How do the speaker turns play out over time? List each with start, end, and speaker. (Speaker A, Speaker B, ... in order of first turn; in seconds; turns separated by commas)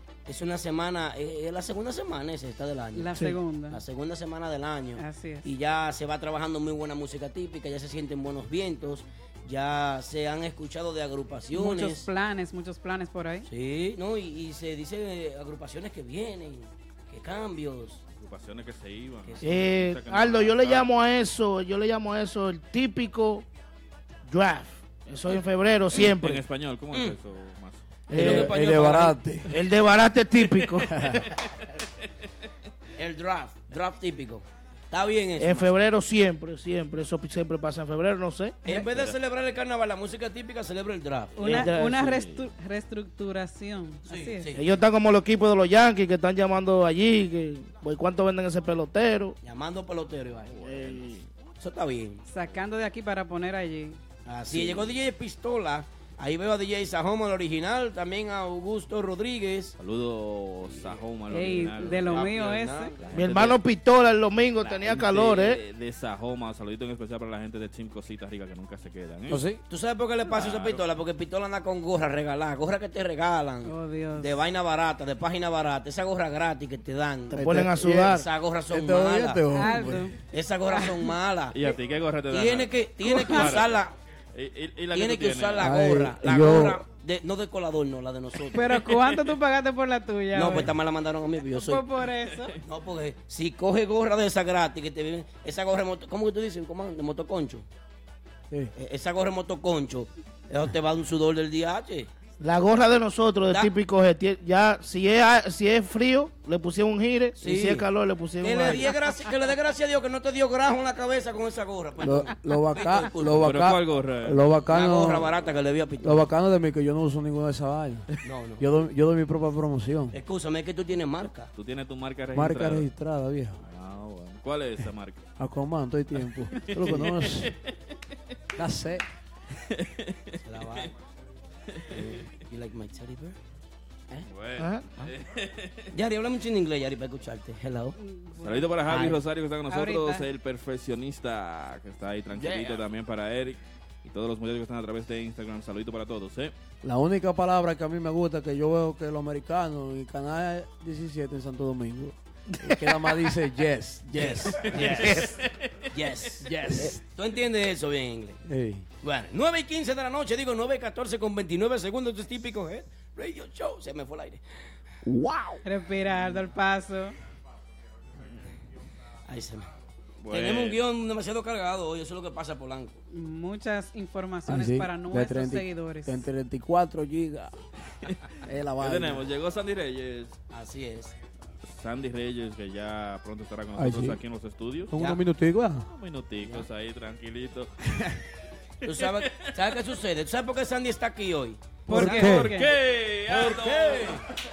Speaker A: 0.2-12.1, Speaker B: 2.9-3.8, Speaker B: 5.0-5.5, Speaker B: 11.5-13.5, Speaker A: 13.4-18.0, Speaker C: 18.2-20.9, Speaker A: 19.2-19.7, Speaker D: 19.4-23.4, Speaker D: 24.3-26.4, Speaker C: 25.9-28.4, Speaker E: 28.1-29.5, Speaker A: 28.1-29.2, Speaker D: 28.1-28.5, Speaker D: 29.5-31.3, Speaker E: 30.8-31.2, Speaker A: 33.0-35.7, Speaker D: 35.4-38.8, Speaker A: 38.6-41.7, Speaker C: 38.9-39.1, Speaker B: 41.4-44.5, Speaker D: 41.4-42.2, Speaker C: 42.1-42.4, Speaker A: 44.0-44.7, Speaker D: 44.5-49.4, Speaker A: 49.4-50.5, Speaker C: 50.4-51.3, Speaker D: 50.6-51.1, Speaker A: 51.6-52.2, Speaker B: 52.2-54.0, Speaker A: 54.2-59.7, Speaker C: 54.5-54.9, Speaker C: 59.8-62.3, Speaker A: 60.7-61.0, Speaker B: 61.3-62.9, Speaker A: 61.9-63.5, Speaker C: 63.0-63.5, Speaker D: 63.1-65.6, Speaker C: 64.6-69.4, Speaker E: 69.3-69.6, Speaker A: 69.7-79.5, Speaker C: 70.3-70.8, Speaker B: 73.7-74.3, Speaker D: 77.3-78.3, Speaker E: 77.3-80.1, Speaker B: 79.5-80.2, Speaker A: 80.3-81.6, Speaker C: 81.5-85.8, Speaker A: 82.3-83.9, Speaker B: 83.1-83.5, Speaker A: 84.9-88.8, Speaker E: 85.6-86.8, Speaker B: 88.5-90.7, Speaker A: 90.3-91.8, Speaker B: 91.5-92.6, Speaker A: 92.6-97.7, Speaker A: 98.7-102.1, Speaker D: 102.4-108.9, Speaker A: 107.4-107.9, Speaker A: 108.4-113.4, Speaker E: 112.0-115.3, Speaker C: 113.4-114.5, Speaker A: 114.7-116.3, Speaker E: 116.0-120.1, Speaker A: 118.2-118.7, Speaker A: 120.1-121.5, Speaker C: 121.5-122.9, Speaker E: 122.3-123.6, Speaker C: 123.6-125.2, Speaker E: 125.4-127.5, Speaker C: 126.5-127.5, Speaker E: 128.6-129.0, Speaker C: 129.7-130.2, Speaker A: 130.4-130.9, Speaker A: 131.9-133.4, Speaker C: 134.3-135.8, Speaker D: 134.6-134.9, Speaker A: 135.9-137.9, Speaker B: 137.9-139.1, Speaker C: 138.4-146.5, Speaker B: 139.7-140.2, Speaker A: 142.4-142.7, Speaker E: 146.8-155.1, Speaker A: 154.1-155.3, Speaker C: 154.6-155.5, Speaker A: 155.9-158.4, Speaker E: 156.4-157.0, Speaker E: 158.4-158.8, Speaker A: 159.0-164.4, Speaker E: 165.1-165.6, Speaker B: 165.6-167.2, Speaker A: 169.3-169.7, Speaker C: 170.2-170.8, Speaker A: 170.3-173.0, Speaker B: 173.1-176.2, Speaker E: 174.5-177.6, Speaker C: 178.0-180.4, Speaker E: 178.4-179.2, Speaker A: 180.5-181.1, Speaker C: 181.6-184.9, Speaker E: 183.8-184.2, Speaker E: 184.9-185.9, Speaker A: 184.9-185.2, Speaker C: 185.9-188.2, Speaker A: 188.8-191.8, Speaker C: 188.9-189.8, Speaker B: 191.9-192.7, Speaker E: 191.9-192.5, Speaker C: 191.9-194.3, Speaker A: 193.2-194.2